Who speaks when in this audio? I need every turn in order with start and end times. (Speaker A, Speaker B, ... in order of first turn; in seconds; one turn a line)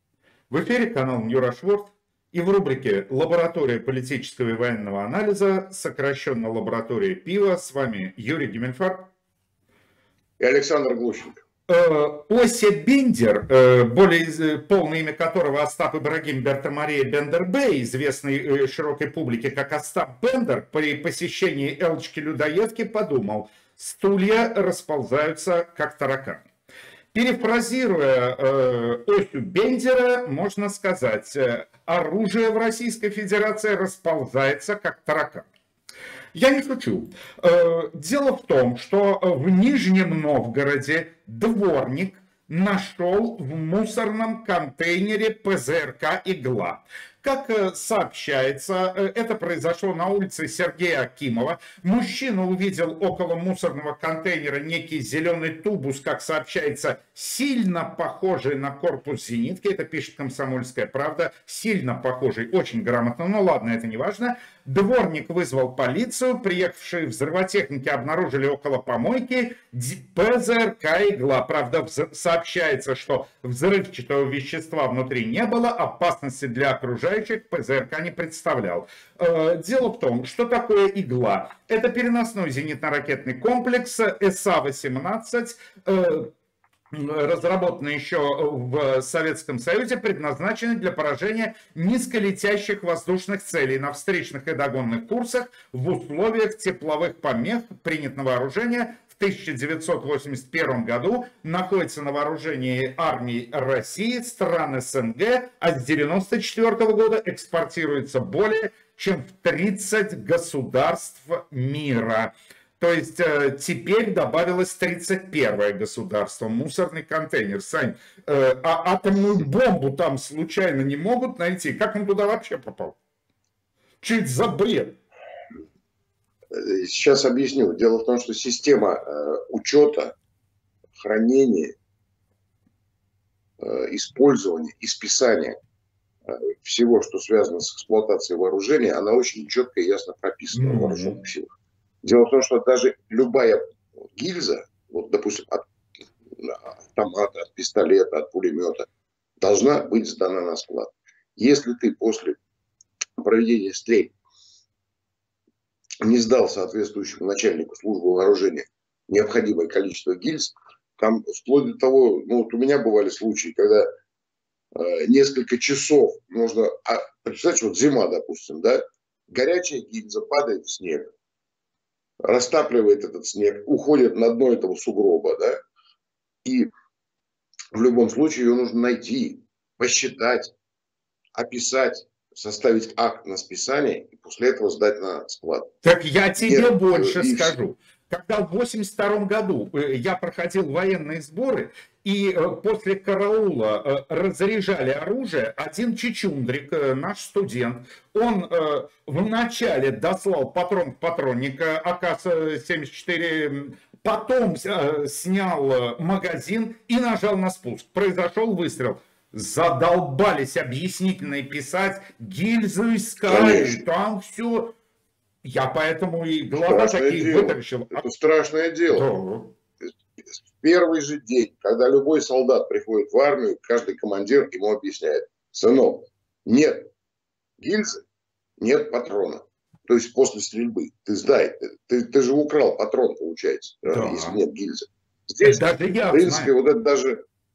Speaker A: 0.5-9.1
Speaker B: 10.4-11.4
Speaker A: 11.7-26.4
Speaker A: 27.1-35.5
Speaker A: 36.3-86.3
Speaker A: 86.9-123.0
Speaker A: 124.0-125.0
Speaker B: 126.5-130.1
Speaker B: 131.0-131.7
Speaker B: 133.6-135.6
Speaker B: 136.3-141.5
Speaker A: 140.5-141.2
Speaker B: 142.0-143.6
Speaker B: 144.1-145.6
Speaker B: 146.4-148.9
Speaker B: 149.4-152.4
Speaker B: 153.2-154.1
Speaker B: 156.0-163.9
Speaker B: 164.7-171.1
Speaker B: 172.2-175.6
Speaker B: 177.7-180.5
Speaker B: 181.3-185.7
Speaker A: 185.8-214.7
Speaker B: 186.4-187.5
Speaker B: 213.3-213.8
Speaker A: 215.4-218.0
Speaker B: 216.5-219.1
Speaker A: 218.9-219.5
Speaker B: 220.3-226.8
Speaker B: 227.6-228.0
Speaker B: 228.6-237.2
Speaker A: 233.9-234.4
Speaker A: 235.4-236.5